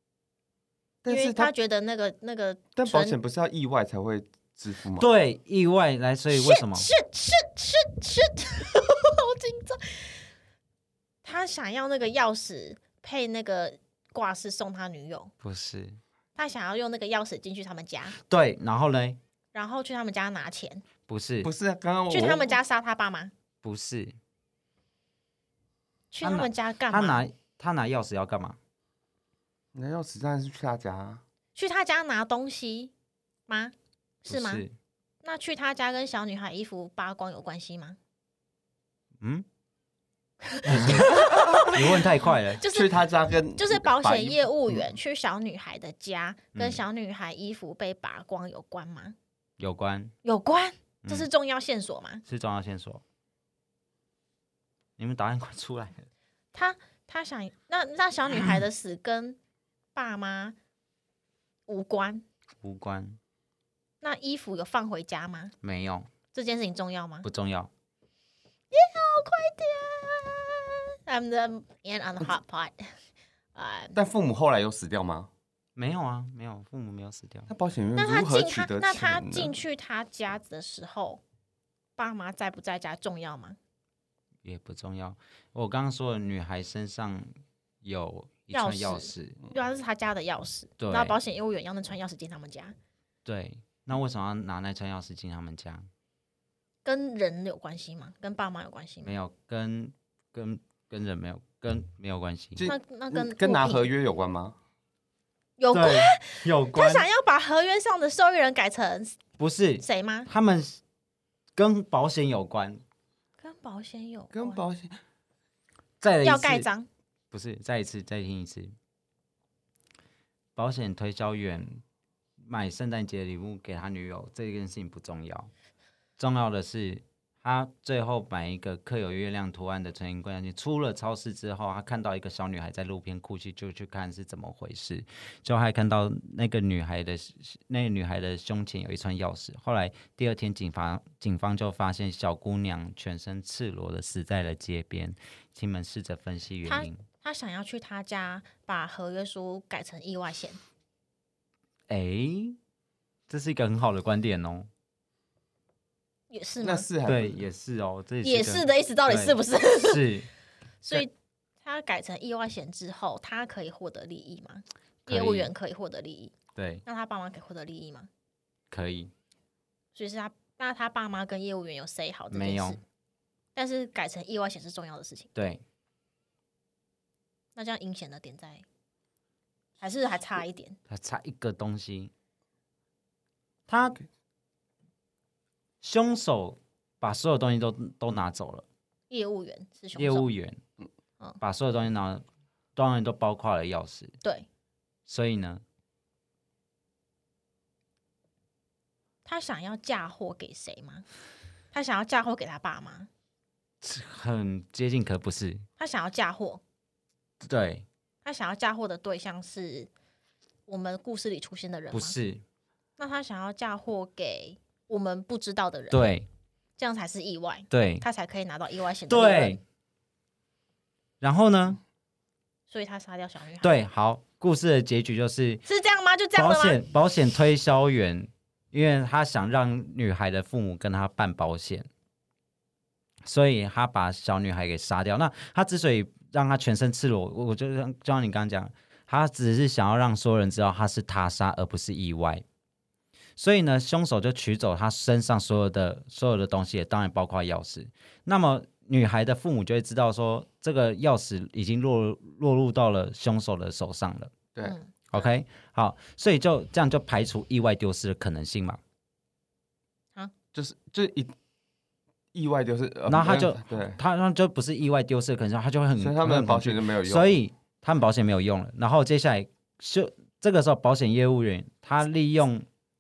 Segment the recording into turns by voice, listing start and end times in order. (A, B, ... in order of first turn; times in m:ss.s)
0:01.0-0:01.5 A
0:01.1-0:03.2 B
0:02.8-0:05.1 A
0:05.0-0:06.9 C
0:06.3-0:10.2 B
0:11.2-0:15.3 B
0:15.4-0:16.0 C
0:16.4-0:18.2 B
0:18.2-0:19.2 C
0:19.5-0:20.8 B
0:21.1-0:21.5 C
0:21.4-0:22.6 A
0:22.1-0:23.3 B
0:23.6-0:24.2 C
0:26.1-0:27.2 B
0:26.2-0:28.6 C
0:29.7-0:31.2 A
0:31.6-0:32.9 B
0:33.5-0:34.6 B
0:34.3-0:34.7 C
0:35.2-0:38.0 B
0:39.2-0:39.4 C
0:40.5-0:42.9 B
0:40.7-0:42.6 C
0:40.8-0:41.7 A
0:42.7-0:44.9 A
0:43.6-0:49.2 B
0:46.5-0:46.8 C
0:49.6-0:50.1 C
0:50.2-0:52.2 B
0:52.2-0:53.0 C
0:55.0-0:56.0 C
0:56.5-0:59.4 B
0:59.9-1:00.6 B
1:01.7-1:02.2 B
1:02.6-1:03.2 C
1:04.0-1:05.5 B
1:05.6-1:06.1 C
1:06.3-1:07.3 B
1:07.2-1:07.7 C
1:08.7-1:12.9 B
1:13.5-1:14.0 B
1:13.9-1:15.3 A
1:15.8-1:17.5 C
1:17.5-1:19.5 A
1:18.0-1:21.2 B
1:22.0-1:23.6 B
1:24.4-1:29.4 C
1:28.5-1:32.7 B
1:30.8-1:31.2 C
1:33.2-1:35.9 C
1:36.8-1:39.2 B
1:39.0-1:42.7 C
1:42.6-1:44.6 A
1:42.6-1:43.9 B
1:45.6-1:49.2 B
1:45.7-1:47.1 C
1:49.4-1:50.8 C
1:49.8-1:50.3 B
1:51.6-1:52.8 C
1:53.4-1:54.6 B
1:54.3-1:55.0 A
1:56.0-1:56.7 C
1:56.2-1:56.9 B
1:57.3-1:58.7 C
2:00.6-2:01.8 C
2:02.4-2:05.5 C
2:06.2-2:27.0 C
2:26.6-2:30.6 B
2:31.9-2:32.6 C
2:33.3-2:34.7 C
2:36.3-2:36.9 B
2:36.6-2:37.4 A
2:37.0-2:40.3 C
2:38.2-2:40.1 B
2:40.8-2:46.3 B
2:45.0-2:45.5 C
2:46.5-2:46.8 C
2:46.9-2:48.1 B
2:48.7-2:49.1 C
2:49.9-2:52.8 B
2:52.3-2:52.8 C
2:53.5-2:55.3 B
2:55.3-2:55.6 C
2:57.6-2:58.6 B
2:59.8-3:00.8 B
3:00.9-3:02.1 C
3:03.7-3:04.0 C
3:05.8-3:08.6 C
3:09.1-3:10.3 B
3:09.9-3:10.6 C
3:11.4-3:12.2 C
3:12.8-3:14.1 C
3:15.1-3:15.6 C
3:19.2-3:21.0 B
3:21.7-3:23.1 B
3:23.8-3:25.6 C
3:25.8-3:26.6 B
3:27.4-3:27.8 C
3:28.2-3:29.9 B
3:30.7-3:32.2 B
3:31.9-3:32.4 C
3:33.0-3:36.0 B
3:35.9-3:36.3 C
3:36.8-3:39.6 B
3:37.7-3:38.0 C
3:39.1-3:39.6 C
3:41.2-3:41.8 C
3:42.7-3:43.7 B
3:43.6-3:45.6 C
3:45.6-3:46.8 B
3:46.3-3:51.9 C
3:53.2-4:02.4 C
4:03.4-4:14.3 C
4:14.6-4:15.2 B
4:15.1-4:18.8 C
4:20.5-4:21.3 A
4:22.3-4:24.0 A
4:23.1-4:32.6 C
4:26.0-4:27.3 A